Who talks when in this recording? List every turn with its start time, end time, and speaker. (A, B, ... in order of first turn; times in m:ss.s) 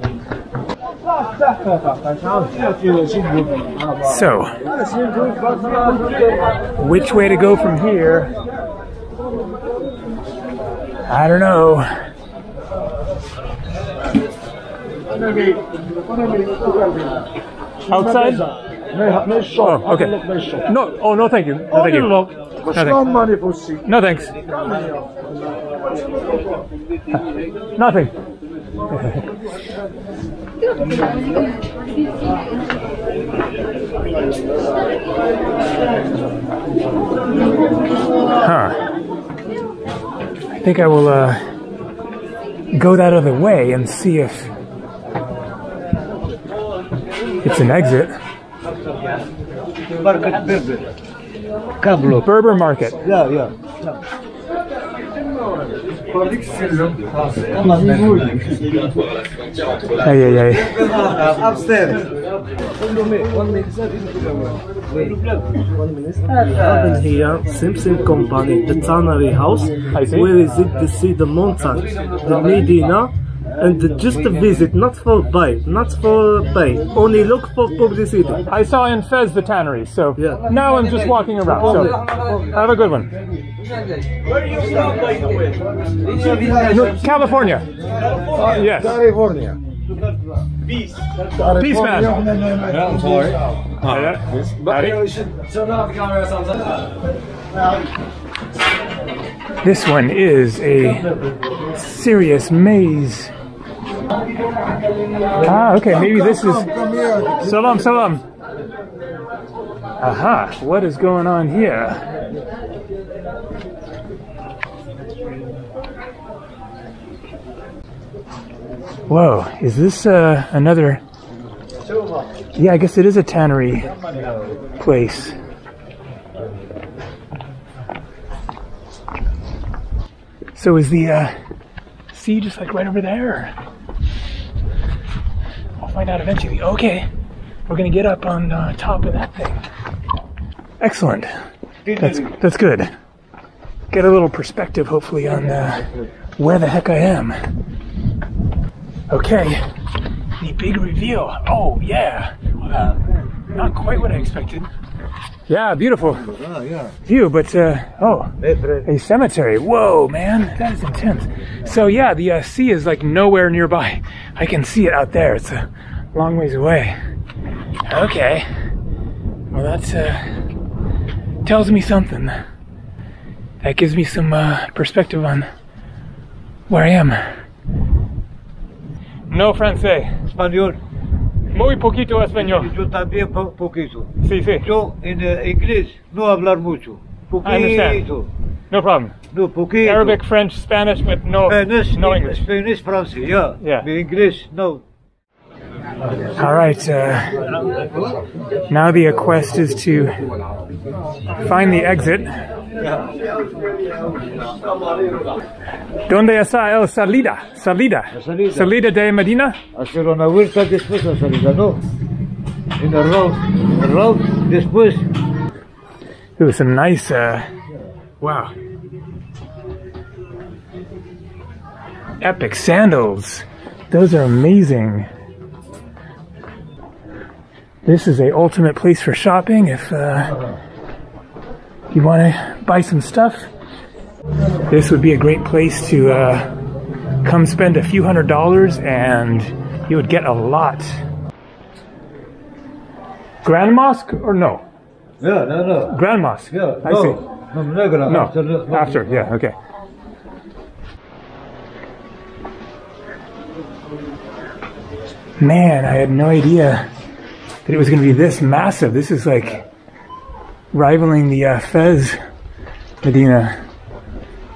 0:04.0-0:04.5 A
0:05.0-0:06.0 B
0:06.8-0:08.3 A
0:11.1-0:11.9 A
0:17.9-0:18.4 A
0:18.9-0:20.6 B
0:19.6-0:23.1 A
0:22.8-0:23.8 B
0:23.8-0:24.4 A
0:27.8-0:28.1 A
0:28.9-0:29.3 A
0:38.4-0:38.8 A
0:40.5-0:41.4 A
0:42.7-0:44.5 A
0:47.4-0:48.2 A
0:50.0-0:50.9 C
0:51.8-0:52.3 C
0:52.1-0:53.0 A
0:53.0-0:53.7 C
0:57.4-0:58.8 C
1:00.0-1:00.8 A
1:00.6-1:02.1 C
1:03.1-1:04.0 B
1:04.9-1:05.4 C
1:05.8-1:18.4 B
1:09.9-1:10.3 A
1:18.5-1:23.1 A
1:26.2-1:26.5 C
1:26.6-1:27.7 A
1:28.4-1:29.0 A
1:29.0-1:29.6 B
1:29.9-1:30.2 C
1:31.4-1:32.2 A
1:32.3-1:33.4 B
1:33.8-1:35.1 A
1:39.6-1:41.1 A
1:41.7-1:43.3 A
1:45.4-1:48.2 A
1:50.0-1:52.0 A
1:59.1-2:01.0 A
2:02.5-2:03.9 A
2:04.8-2:05.4 A
2:10.5-2:11.3 A
2:12.1-2:13.5 A
2:15.8-2:17.1 A
2:17.7-2:19.6 A
2:20.8-2:21.3 A
2:21.8-2:22.4 C
2:22.0-2:22.9 A
2:23.9-2:27.4 A
2:29.1-2:29.6 A
2:30.4-2:32.9 A
2:32.8-2:33.1 C
2:33.5-2:34.7 A
2:35.5-2:36.2 A
2:36.2-2:36.9 C
2:37.0-2:47.0 A
2:38.4-2:38.9 C
2:47.9-2:48.5 A
2:49.5-2:50.3 A
2:51.4-2:52.4 A
2:53.6-2:55.5 A
2:56.7-2:57.2 A
2:59.3-3:00.2 A
3:00.2-3:00.8 C
3:01.5-3:02.7 A
3:02.4-3:08.3 C
3:04.2-3:04.7 A
3:07.4-3:08.0 A
3:08.7-3:09.1 A
3:09.3-3:10.2 C
3:09.8-3:12.4 A
3:11.4-3:14.8 C
3:13.6-3:13.9 A
3:16.4-3:17.5 A
3:18.7-3:20.2 A
3:21.4-3:22.4 A
3:22.8-3:23.2 C
3:26.1-3:29.6 A
3:28.1-3:28.7 C
3:29.7-3:31.8 C
3:32.8-3:35.1 C
3:36.4-3:37.5 A
3:38.2-3:38.5 A
3:42.2-3:45.1 A
3:47.8-3:50.4 A
3:51.9-3:53.5 A
3:54.7-3:56.5 A
3:57.2-4:01.0 A
4:03.4-4:04.6 A
4:05.2-4:09.3 C
4:05.9-4:07.2 A
4:08.0-4:09.5 A
4:15.4-4:16.9 A
4:17.6-4:19.6 A
4:20.7-4:22.2 A
4:23.0-4:23.6 A